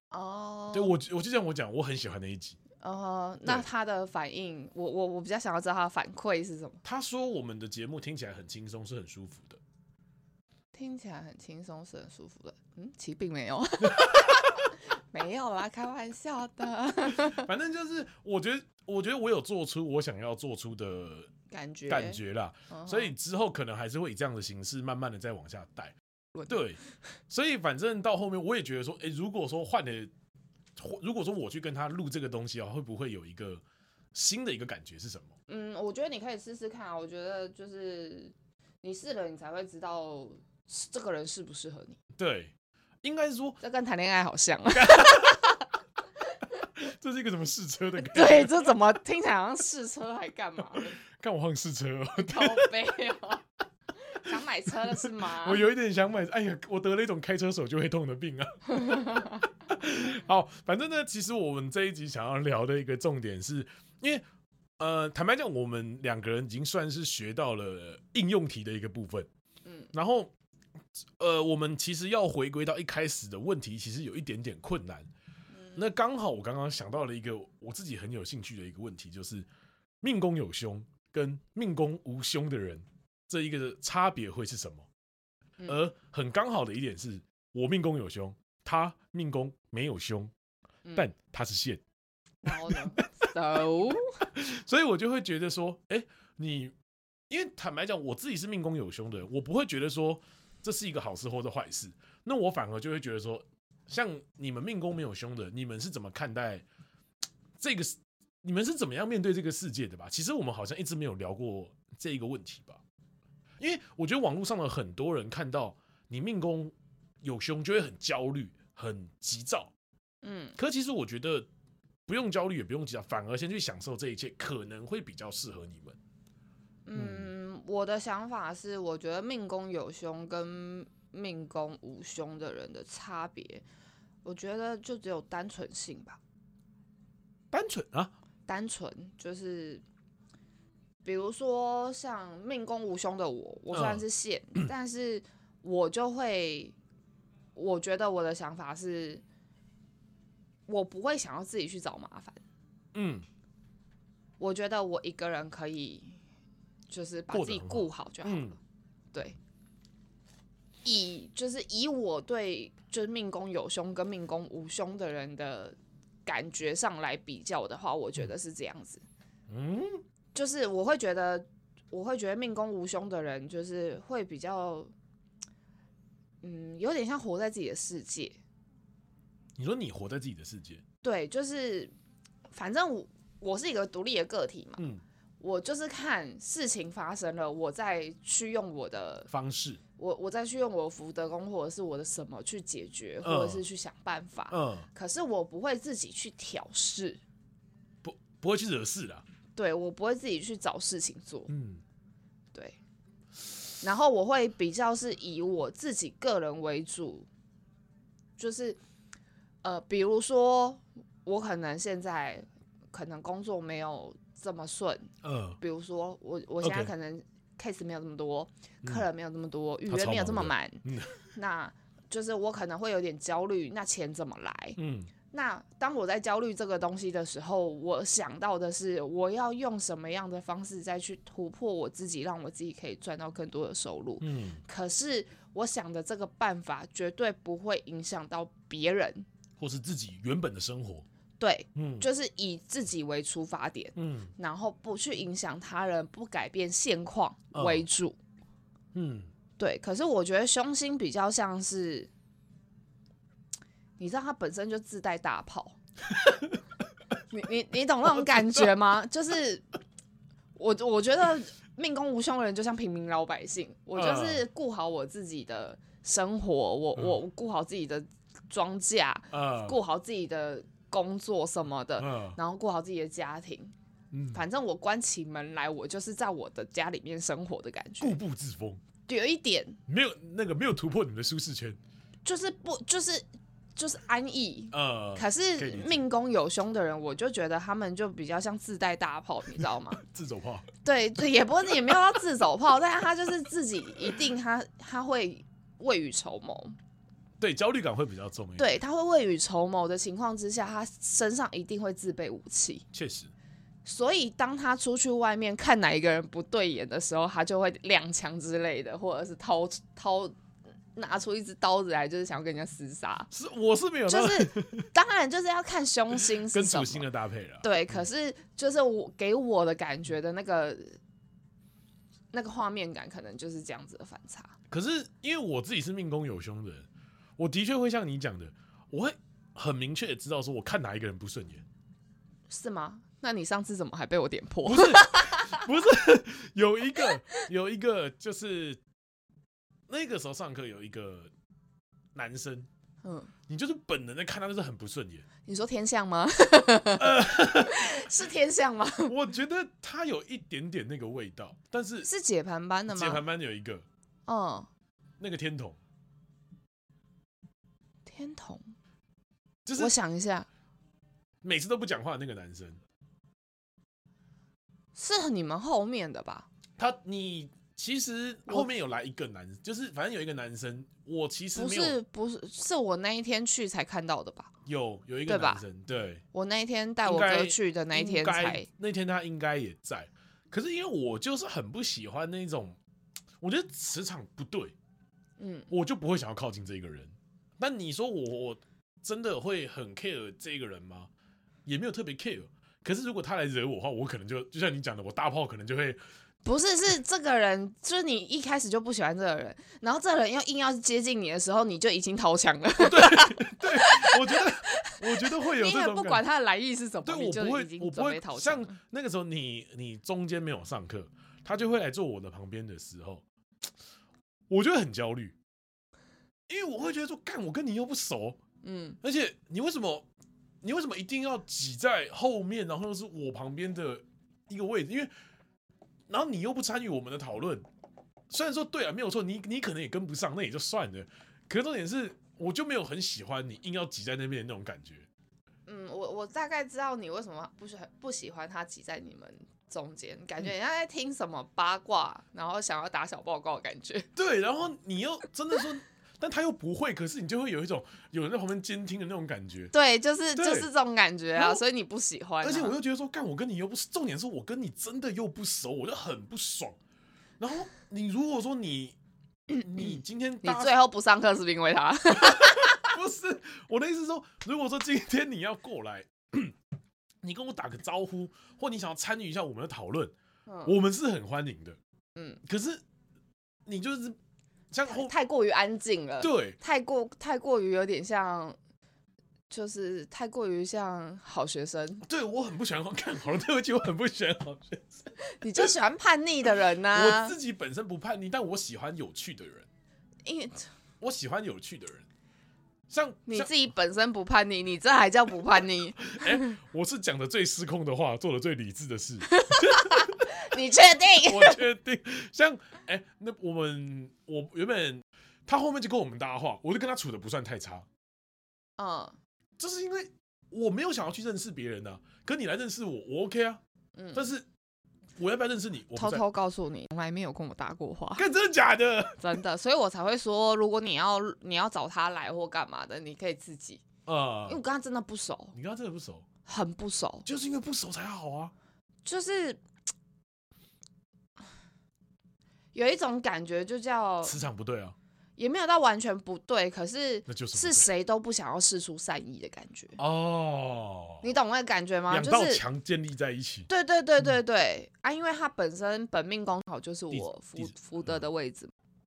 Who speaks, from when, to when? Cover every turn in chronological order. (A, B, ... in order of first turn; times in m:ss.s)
0:00.1-0:01.0 A
0:00.7-0:02.6 B
0:02.8-0:06.8 A
0:06.8-0:09.6 B
0:10.7-0:17.5 A
0:14.0-0:14.4 B
0:17.2-0:21.3 B
0:21.5-0:23.1 A
0:21.9-0:25.9 B
0:26.5-0:30.1 B
0:30.8-0:33.6 B
0:34.1-0:35.3 B
0:35.5-0:42.0 A
0:42.2-0:43.6 B
0:43.6-0:45.6 A
0:44.7-0:45.5 B
0:46.7-0:48.7 B
0:48.0-0:51.0 A
0:50.7-0:52.7 B
0:52.2-0:53.4 A
0:54.0-0:55.6 A
0:54.3-1:04.2 B
0:58.7-0:59.4 A
1:04.8-1:09.3 B
1:09.6-1:09.9 A
1:09.9-1:10.3 B
1:11.2-1:15.1 B
1:15.5-1:15.9 A
1:15.8-1:19.5 B
1:20.0-1:24.8 B
1:25.7-1:30.3 B
1:30.9-1:31.8 B
1:32.4-1:34.3 A
1:32.5-1:33.0 B
1:34.3-1:36.7 B
1:37.3-1:46.6 B
1:47.6-1:52.8 B
1:53.6-1:59.7 B
2:00.2-2:00.6 A
2:00.6-2:01.5 B
2:02.0-2:06.0 B
2:06.8-2:13.6 A
2:07.0-2:07.3 B
2:14.2-2:16.2 A
2:17.5-2:18.1 B
2:18.5-2:19.8 A
2:21.0-2:26.7 A
2:23.7-2:24.0 B
2:27.6-2:29.2 A
2:30.7-2:32.4 A
2:32.9-2:33.2 B
2:34.4-2:36.2 A
2:36.9-2:38.6 A
2:37.3-2:38.6 B
2:40.8-2:49.0 A
2:49.5-2:50.0 B
2:50.3-2:54.9 A
2:56.4-2:58.4 A
2:59.6-3:00.8 B
3:01.0-3:01.9 A
3:02.5-3:04.8 A
3:04.8-3:05.0 B
3:05.4-3:09.3 A
3:09.3-3:09.8 B
3:10.0-3:17.2 A
3:13.2-3:13.6 B
3:14.5-3:14.9 B
3:18.0-3:19.2 B
3:19.6-3:21.5 A
3:21.5-3:21.8 B
3:23.8-3:27.3 A
3:28.4-3:28.8 A
3:29.6-3:44.8 A
3:35.2-3:35.6 B
3:36.6-3:36.9 B
3:39.9-3:41.2 B
3:44.8-3:45.1 B
3:45.3-3:59.2 A
3:54.2-3:54.6 B
3:59.6-4:01.0 B
4:01.4-4:08.2 A
4:01.7-4:02.1 B
4:04.0-4:04.3 B
4:07.5-4:07.8 B
4:08.9-4:09.3 B
4:09.6-4:12.1 A
4:14.0-4:15.8 A
4:16.1-4:16.6 B
4:17.3-4:19.7 A
4:18.0-4:18.7 B
4:20.6-4:33.7 A
4:23.9-4:24.4 B
4:29.3-4:29.8 B
4:32.0-4:32.4 B
4:34.1-4:34.4 B
4:34.3-4:38.2 A
4:38.0-4:38.8 B
4:39.1-4:39.8 A
4:39.9-4:41.8 B
4:42.2-4:50.0 A
4:44.7-4:46.0 B
4:50.0-4:50.6 B
4:50.8-4:56.8 A
4:57.4-4:58.7 B
4:58.6-5:02.8 A
5:02.9-5:03.3 B
5:03.8-5:10.4 A
5:11.0-5:13.3 A
5:13.3-5:14.9 B
5:14.1-5:17.0 A
5:16.2-5:18.0 B
5:17.6-5:21.0 A
5:22.3-5:24.5 A
5:24.7-5:31.6 B
5:32.5-5:35.7 A
5:34.6-5:38.8 B
5:39.9-5:41.3 B
5:42.1-5:42.7 B
5:43.0-5:43.3 A
5:43.5-5:45.2 B
5:45.5-5:49.1 A
5:47.0-5:48.1 B
5:49.0-5:52.1 B
5:52.0-5:53.2 A
5:52.9-5:53.8 B
5:54.3-5:54.7 A
5:55.2-5:55.8 B
5:58.0-5:58.7 A
5:59.6-5:59.9 B
5:59.8-6:00.5 A
6:01.4-6:02.8 B
6:05.0-6:06.5 A
6:06.8-6:12.0 B
6:11.5-6:14.5 A
6:14.6-6:16.2 B
6:15.3-6:15.6 A
6:16.3-6:18.7 A
6:17.0-6:22.8 B
6:23.4-6:24.7 B
6:25.4-6:25.7 A
6:25.7-6:31.1 B
6:31.6-6:36.0 B
6:36.4-6:48.8 A
6:42.8-6:46.2 B
6:47.0-6:53.2 B
6:54.5-6:55.4 B
6:56.5-6:58.4 B
6:58.6-6:59.0 A
6:59.0-7:00.1 B
7:00.6-7:05.1 B
7:06.1-7:07.6 B
7:08.3-7:15.1 B
7:15.7-7:24.1 A
7:24.2-7:29.7 B
7:29.7-7:32.8 A
7:30.4-7:30.7 B
7:31.4-7:31.6 B
7:32.4-7:36.8 B
7:37.4-7:39.0 B
7:39.6-7:40.8 B
7:39.8-7:43.0 A
7:42.2-7:46.5 B
7:47.2-7:50.1 B
7:50.5-7:50.8 A
7:50.6-7:51.8 B
7:52.2-7:52.4 A
7:52.4-7:52.8 B
7:53.6-7:54.2 B
7:54.7-7:55.1 B
7:54.9-7:58.6 A
7:56.2-7:56.6 B
7:59.5-8:02.0 A
8:02.0-8:05.1 B
8:05.2-8:07.4 A
8:06.9-8:09.7 B
8:10.2-8:10.7 A
8:11.0-8:12.0 B
8:12.9-8:13.5 B
8:13.3-8:16.6 A
8:16.1-8:20.4 B
8:19.3-8:21.6 A
8:21.2-8:27.9 B
8:28.8-8:29.2 A
8:29.6-8:33.6 B
8:34.0-8:34.3 A
8:34.1-8:34.4 B
8:35.2-8:36.2 B
8:35.9-8:38.3 A
8:38.2-8:39.2 B
8:39.2-8:43.8 A
8:44.0-8:44.6 B
8:44.4-8:45.6 A
8:45.5-8:46.2 B
8:46.4-8:47.2 A
8:47.2-8:48.5 B
8:49.0-8:49.6 A
8:52.7-8:54.4 A
8:54.2-8:54.9 B
8:55.4-9:00.0 A
8:57.3-8:57.9 B
9:00.0-9:01.3 B
9:01.2-9:02.6 A
9:02.1-9:03.7 B
9:03.7-9:08.7 A
9:07.1-9:08.2 B